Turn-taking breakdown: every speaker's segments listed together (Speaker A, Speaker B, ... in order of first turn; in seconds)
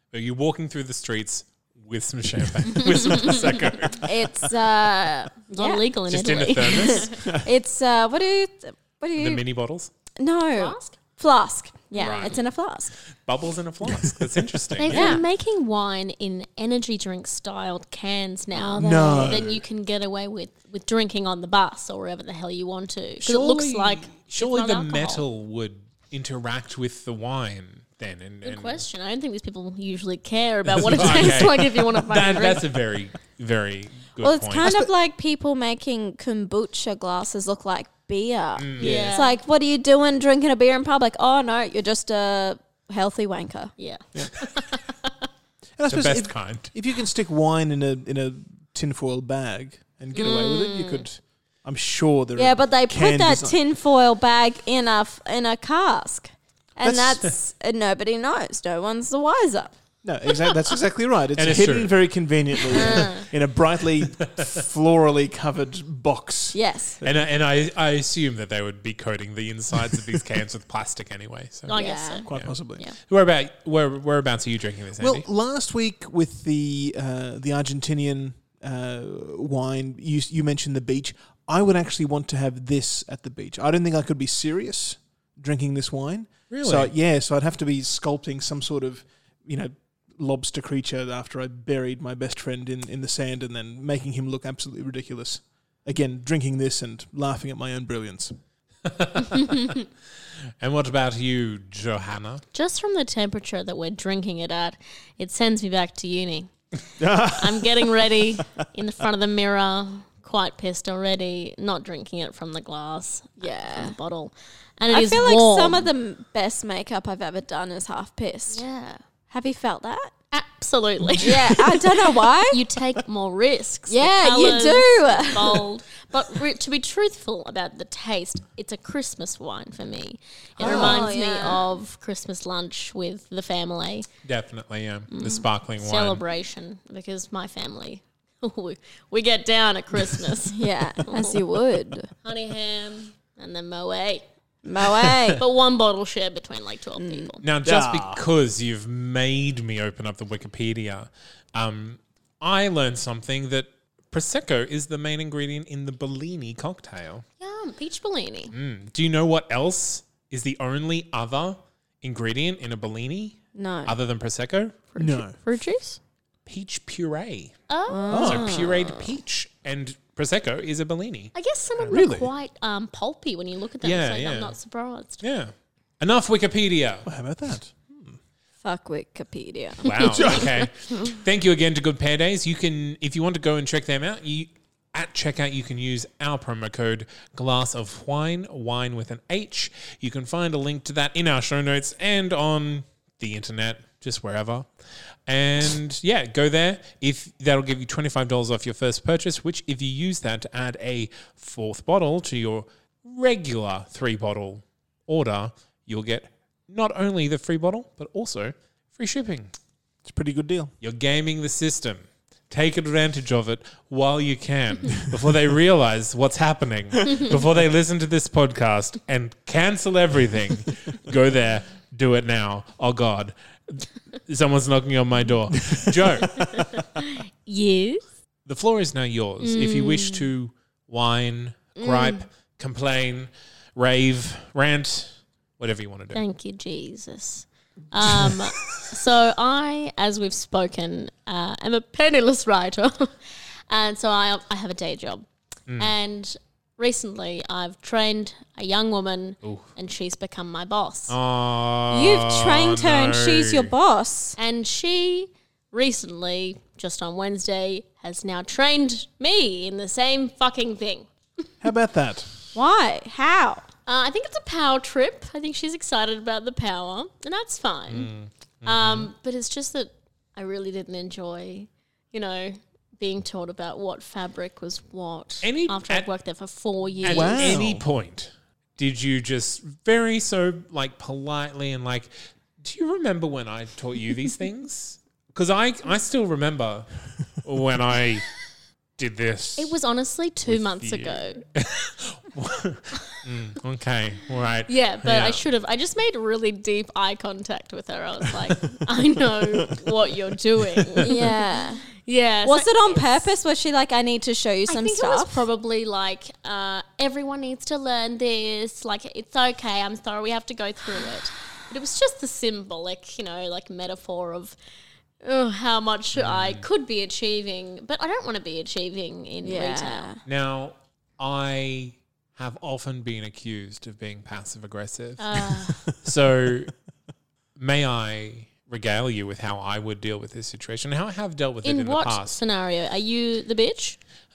Speaker A: 0.1-4.2, 6.1-7.3, 9.2-9.9, 12.0-12.4, 13.2-15.2, 23.2-28.9, 30.7-34.8, 38.6-39.2, 45.9-46.7, 61.4-62.0, 62.8-63.2, 67.0-75.2, 86.5-86.9, 98.9-99.9, 100.6-102.4, 134.2-136.2, 147.4-157.2, 158.5-164.8, 166.5-167.6, 168.2-172.0, 173.8-174.5, 175.2-177.1, 179.8-194.7, 195.3-209.5, 210.8-226.8, 228.5-236.2, 251.1-253.7, 267.9-269.1, 275.4-276.1, 277.0-288.3, 289.0-289.7, 290.4-295.4, 316.2-316.7, 320.3-326.7, 327.6-332.4
Speaker B: 2.9-3.5, 5.5-7.2, 10.5-11.0, 11.9-12.4, 14.8-25.2, 28.4-32.8, 38.8-39.4, 43.8-45.3, 50.1-51.1, 62.7-63.3, 71.7-72.3, 102.5-106.5, 107.2-115.9, 118.5-119.0, 120.3-134.1, 135.1-141.4, 142.2-144.3, 145.3-147.4, 157.4-158.5, 164.9-166.0, 167.7-168.3, 171.3-175.2, 226.8-228.0, 229.4-230.3, 231.8-232.1, 236.1-251.2, 254.4-261.1, 263.9-268.1, 268.6-277.6, 289.6-291.4, 294.7-301.4, 302.0-303.3, 304.7-314.6, 315.2-320.1, 325.2-325.9, 331.6-334.0
Speaker C: 4.0-5.9, 6.5-9.4, 10.2-12.9, 14.9-15.2, 18.6-19.4, 34.2-43.7, 52.4-59.7, 66.5-67.0, 71.7-72.3, 113.4-114.0, 114.9-118.7, 119.3-120.1, 121.2-122.6, 123.9-125.7, 130.6-131.7, 140.5-142.1, 144.7-145.4, 147.0-147.4, 163.6-164.0, 167.9-169.1, 178.6-180.4, 251.9-254.4, 262.5-263.6, 301.0-301.9, 302.4-305.4, 319.4-320.2
Speaker D: 13.9-14.6, 18.8-19.6, 45.8-53.6, 56.8-57.3, 60.0-67.2, 72.3-72.9, 75.0-98.3, 107.0-108.2, 121.0-121.3, 130.6-131.0, 147.6-148.2, 165.0-165.4, 168.1-168.5, 171.9-172.3, 177.1-178.2, 180.2-180.4, 210.1-210.7, 261.6-262.3, 277.1-277.9